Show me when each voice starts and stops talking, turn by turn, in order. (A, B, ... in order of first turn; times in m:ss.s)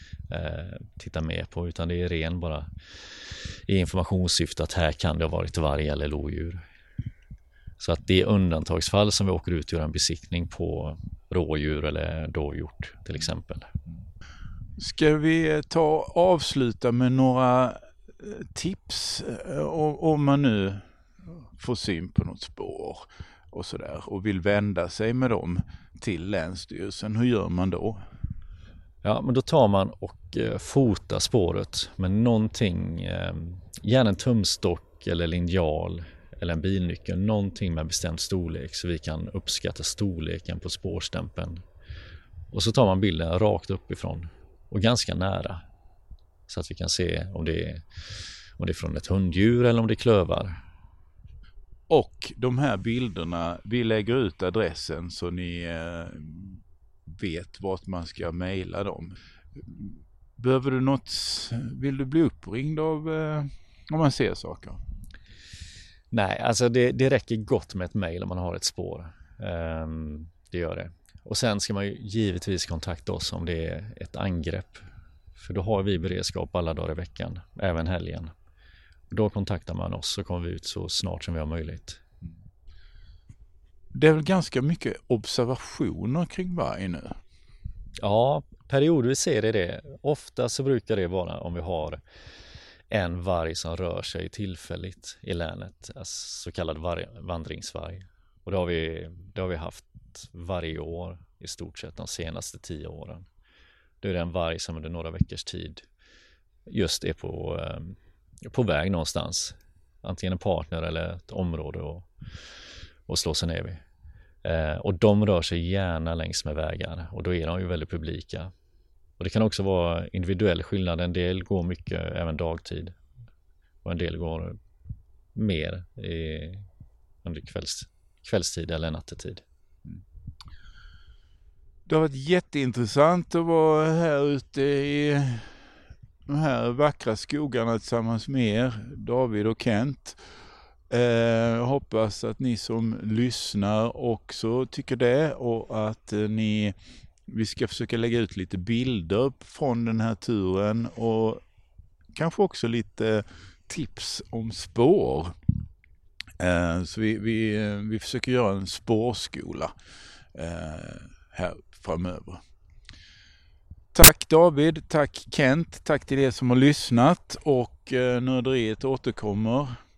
0:00.3-0:06.6 A
0:07.8-0:13.7 A
0:14.8-0:20.9 B
0:21.5-0:28.0 B
0:29.0-0:41.6 A
0:42.5-0:45.6 A
0:46.5-0:47.9 A
0:48.6-0:50.6 A
0:51.9-1:04.8 B
1:06.1-1:14.9 A
1:15.4-1:18.3 A
1:19.1-1:22.0 A
1:23.9-1:27.2 B
1:28.0-1:32.0 A
1:32.9-1:43.3 A
1:44.0-1:45.8 A
1:46.7-1:52.1 A
1:53.1-1:53.8 A
1:54.4-1:58.5 A
1:59.2-2:03.0 A
2:03.8-2:04.6 A
2:05.4-2:06.7 A
2:07.2-2:09.4 A
2:11.9-2:15.7 B
2:16.3-2:20.2 B
2:20.9-2:26.7 B
2:27.3-2:31.4 B
2:32.1-2:35.4 B
2:36.4-2:39.7 B
2:40.3-2:42.4 B
2:43.9-2:49.8 B